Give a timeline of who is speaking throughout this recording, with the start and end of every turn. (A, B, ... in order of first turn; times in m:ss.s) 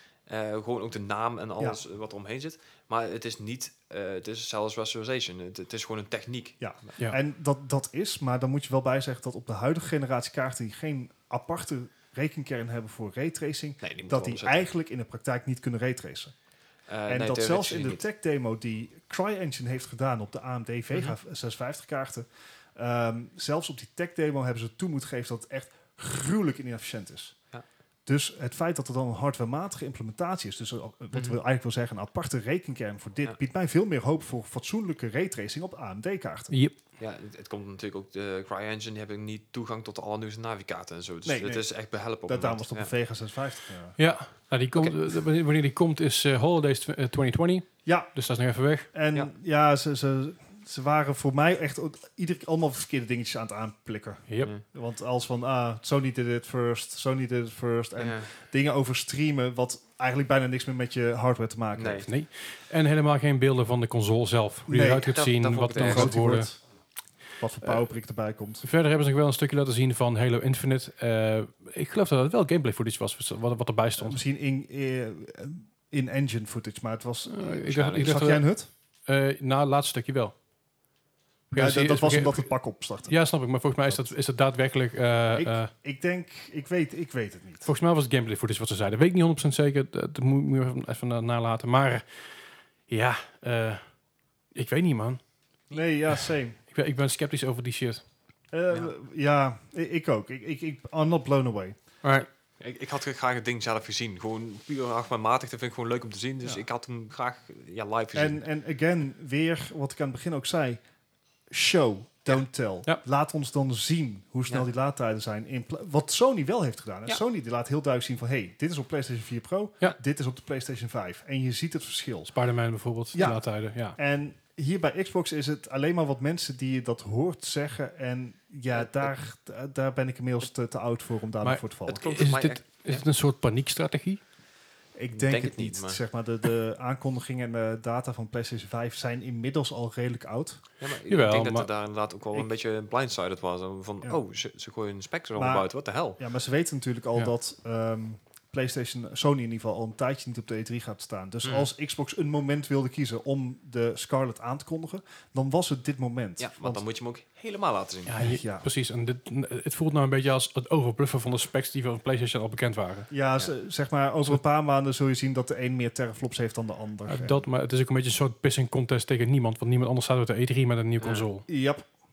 0:00.3-0:07.0 A
0:06.6-0:16.3 B
0:13.8-0:14.7 A
0:16.9-0:18.0 A
0:17.1-0:27.4 B
0:28.0-0:36.5 B
0:31.1-0:31.4 A
0:37.0-0:42.9 A
0:41.2-0:41.6 B
0:42.3-0:44.0 B
0:44.0-0:48.9 C
0:47.8-0:48.1 B
0:48.9-1:02.0 B
0:58.0-0:58.3 A
1:01.7-1:02.1 A
1:02.0-1:06.5 C
1:04.7-1:05.2 B
1:05.0-1:06.2 A
1:05.7-1:06.6 B
1:07.4-1:08.6 B
1:08.6-1:14.2 C
1:14.0-1:18.7 B
1:17.2-1:18.4 C
1:17.6-1:18.1 A
1:19.0-1:20.3 C
1:21.5-1:22.4 C
1:21.5-1:23.1 B
1:23.1-1:25.7 C
1:23.9-1:24.1 B
1:25.3-1:27.7 B
1:27.6-1:32.0 C
1:32.9-1:33.8 C
1:34.5-1:35.2 C
1:35.7-1:36.6 B
1:36.7-1:38.0 C
1:38.5-1:41.8 B
1:42.0-1:42.3 C
1:42.6-1:48.4 A
1:48.1-1:50.8 B
1:51.5-2:02.3 B
2:02.3-2:04.0 C
2:03.1-2:03.4 B
2:03.9-2:12.0 B
2:08.7-2:09.1 A
2:11.4-2:14.2 C
2:11.8-2:13.0 A
2:15.0-2:20.6 B
2:15.1-2:16.0 A
2:20.8-2:26.2 A
2:21.1-2:21.7 C
2:25.4-2:36.8 B
2:31.4-2:31.7 A
2:36.4-2:38.2 A
2:38.0-2:43.1 C
2:38.2-2:38.7 B
2:43.1-2:47.4 B
2:47.0-2:51.4 C
2:51.0-2:51.3 A
2:51.5-2:51.8 B